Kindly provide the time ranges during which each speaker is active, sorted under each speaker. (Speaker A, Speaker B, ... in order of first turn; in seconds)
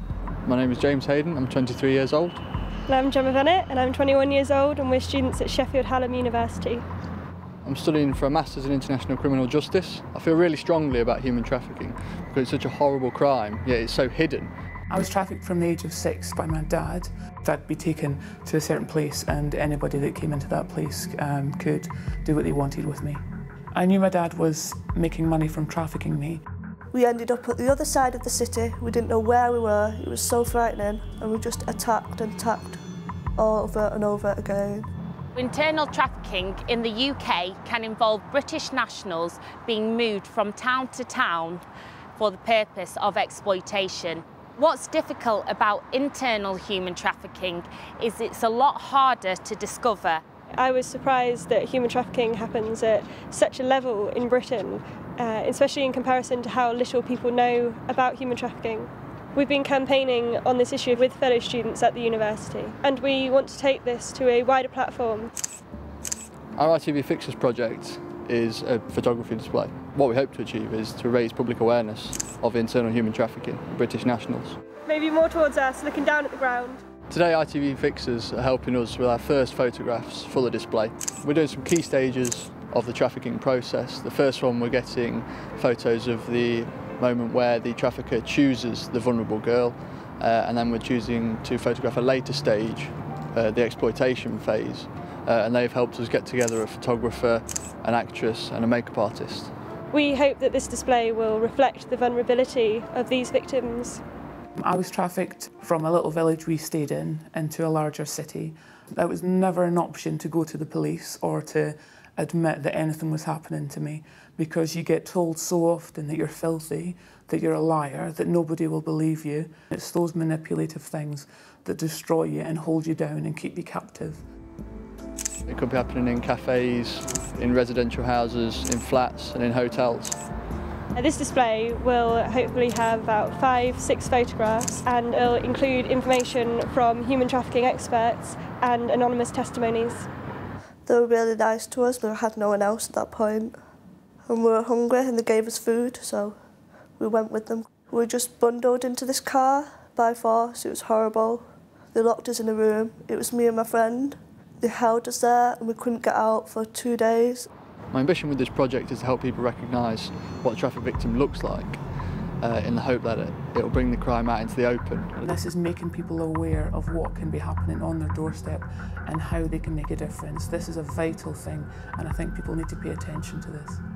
Speaker A: 0.4-2.4, 7.6-14.5, 66.5-74.6, 77.1-99.5, 125.5-130.2, 157.9-161.8, 162.4-165.2
Speaker B: 2.9-6.8, 50.6-65.3, 74.9-76.8, 99.9-104.0, 130.9-140.1
Speaker C: 14.9-23.2, 23.7-26.4, 104.6-124.2, 165.2-173.8
Speaker D: 26.9-32.8, 33.4-34.9, 140.8-143.5, 144.2-146.4, 147.0-157.5
Speaker E: 35.4-41.6, 42.2-50.2